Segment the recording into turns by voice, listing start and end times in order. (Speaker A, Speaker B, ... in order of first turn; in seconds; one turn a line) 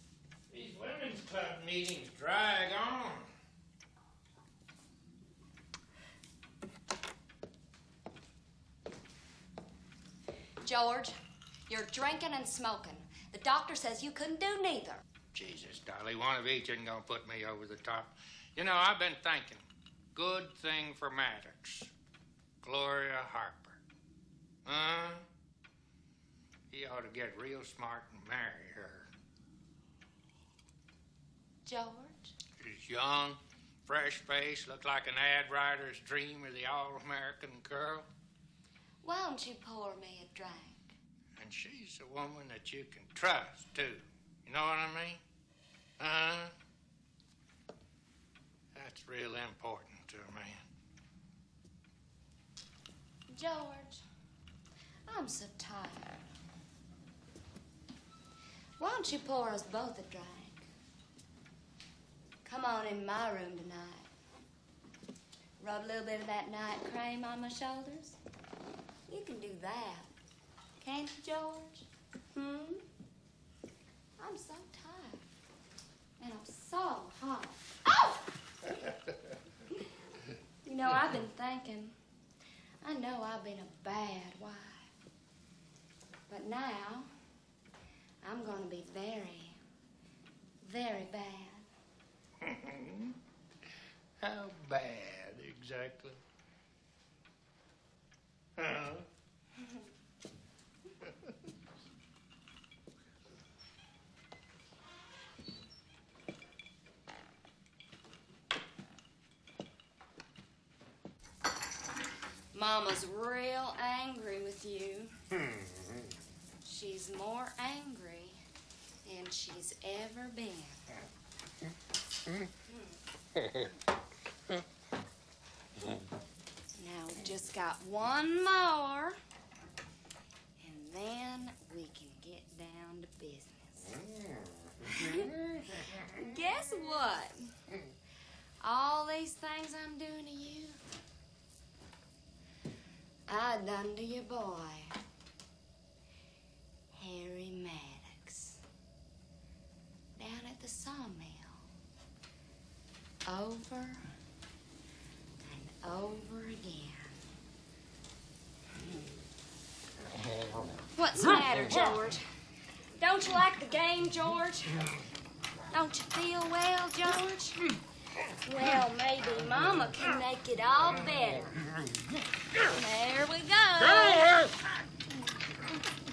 Speaker A: 0.5-3.3
Speaker B: 10.6-11.2
Speaker B: 11.7-15.0
Speaker A: 15.3-19.6
Speaker A: 20.1-21.9
Speaker A: 22.6-23.8
Speaker A: 24.6-25.3
Speaker A: 26.7-29.1
Speaker B: 31.6-32.4
Speaker A: 32.6-38.1
Speaker B: 39.0-41.0
Speaker A: 41.4-45.2
Speaker A: 46.0-46.5
Speaker A: 48.8-50.6
Speaker B: 53.3-54.0
Speaker B: 55.1-56.3
Speaker B: 58.8-60.7
Speaker B: 62.4-64.1
Speaker B: 65.6-68.2
Speaker B: 69.1-70.1
Speaker B: 70.8-72.8
Speaker B: 74.2-75.2
Speaker B: 76.2-78.7
Speaker B: 80.6-82.0
Speaker B: 82.8-84.9
Speaker B: 86.3-87.1
Speaker B: 88.2-89.6
Speaker B: 90.6-91.7
Speaker A: 92.4-93.2
Speaker A: 94.2-96.2
Speaker A: 98.6-99.1
Speaker B: 112.5-115.1
Speaker B: 116.6-118.4
Speaker B: 119.0-120.9
Speaker B: 126.8-129.2
Speaker B: 130.6-134.0
Speaker B: 134.8-137.5
Speaker B: 138.6-140.8
Speaker B: 143.3-145.0
Speaker B: 146.9-148.6
Speaker B: 150.2-151.6
Speaker B: 153.3-154.1
Speaker B: 155.4-157.2
Speaker B: 158.7-159.1
Speaker B: 160.9-162.2
Speaker B: 162.9-165.0
Speaker B: 165.7-167.7
Speaker B: 168.4-171.6
Speaker B: 172.6-174.5